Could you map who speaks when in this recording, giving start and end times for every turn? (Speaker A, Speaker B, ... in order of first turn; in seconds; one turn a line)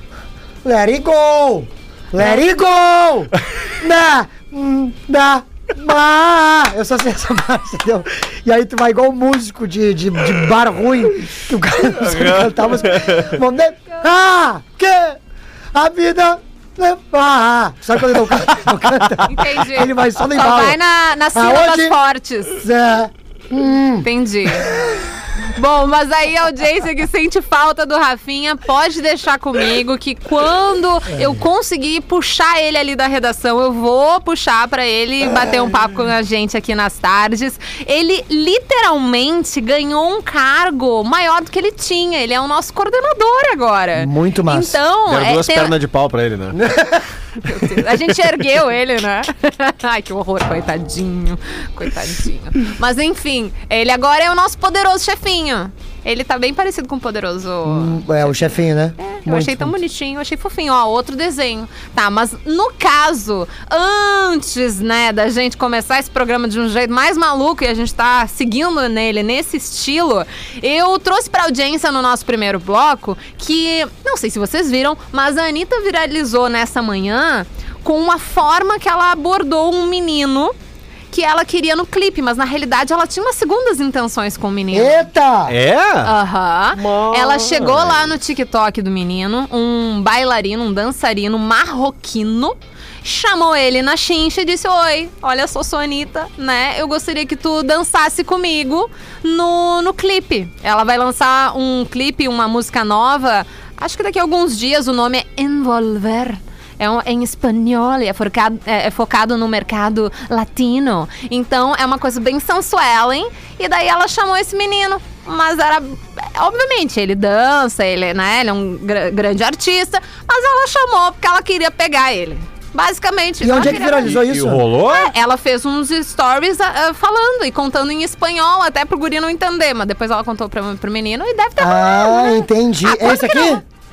Speaker A: 0.6-15.2
Speaker B: 11.9-13.4
Speaker A: 15.7-20.8
Speaker C: 19.2-22.6
Speaker A: 21.3-22.0
Speaker A: 22.6-25.0
Speaker C: 24.0-24.7
Speaker C: 25.5-45.8
Speaker A: 31.1-31.4
Speaker A: 43.9-44.8
Speaker B: 45.0-46.7
Speaker A: 46.6-47.0
Speaker C: 47.4-58.4
Speaker A: 57.6-59.8
Speaker C: 59.0-80.5
Speaker C: 81.1-85.1
Speaker A: 84.7-85.5
Speaker B: 85.5-86.1
Speaker C: 86.0-124.2
Speaker B: 86.7-88.1
Speaker A: 123.4-124.6
Speaker B: 123.6-125.1
Speaker C: 124.8-133.6
Speaker A: 131.6-133.6